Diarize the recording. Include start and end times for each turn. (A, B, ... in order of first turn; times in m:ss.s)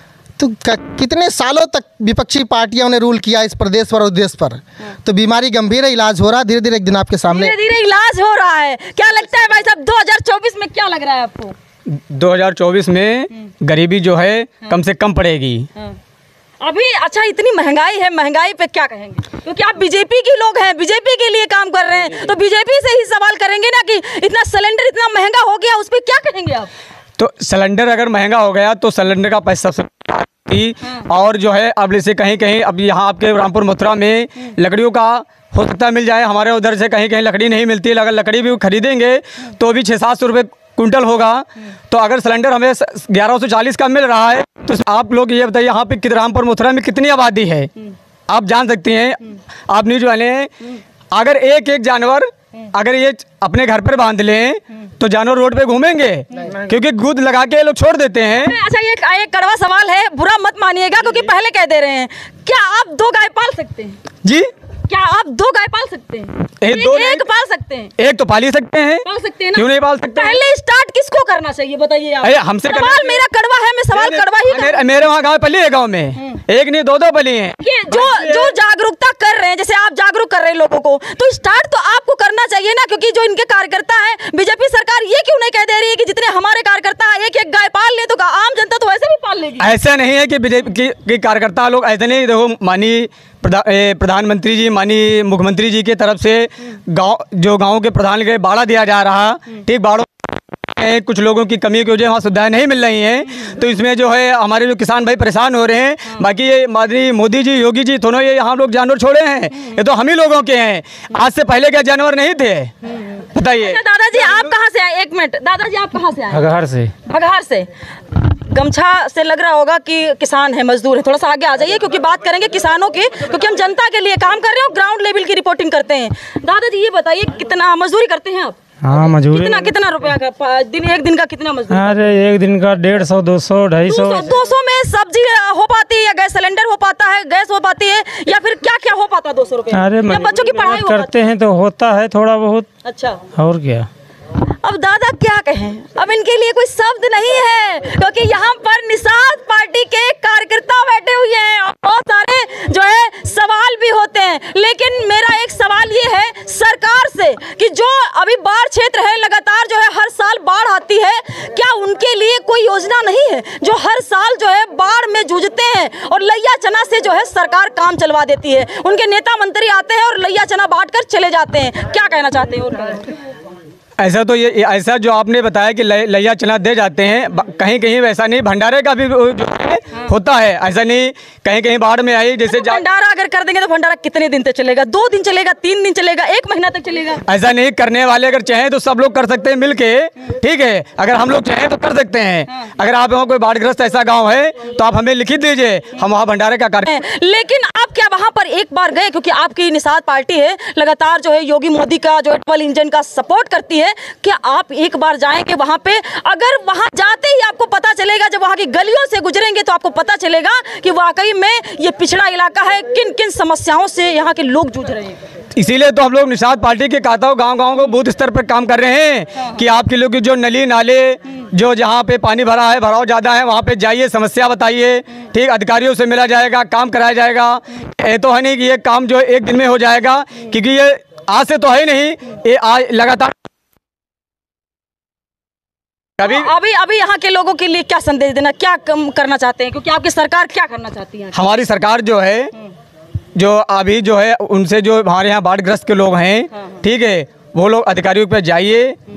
0:00.4-0:07.6 A
0:07.3-0:11.6 B
0:11.9-0:15.6 C
0:16.6-0:26.7 B
0:27.2-0:47.7 C
0:48.3-0:50.5 C
0:51.1-0:58.5 C
0:58.4-1:04.0 B
1:04.2-1:04.5 C
1:04.9-1:07.9 B
1:06.6-1:07.2 C
1:08.0-1:10.4 C
1:09.0-1:14.8 B
1:12.2-1:13.2 C
1:13.9-1:18.5 C
1:16.2-1:16.4 B
1:17.6-1:29.7 B
1:29.6-1:52.7 C
1:52.8-1:56.5 B
1:53.3-1:53.8 C
1:56.3-1:56.9 D
1:57.0-2:12.0 B
2:08.8-2:09.6 D
2:11.7-2:14.2 D
2:13.8-2:21.1 B
2:19.7-2:22.7 D
2:22.8-2:23.2 B
2:23.3-2:23.9 D
2:24.4-2:53.1 B
2:54.0-3:02.8 C
3:02.4-3:07.2 B
3:07.3-3:16.9 C
3:16.8-3:35.2 B
3:35.5-3:53.3 C
3:39.3-3:39.7 B
3:56.2-3:56.5 C
3:56.2-4:01.5 B
4:01.3-4:02.5 C
4:03.3-4:09.0 C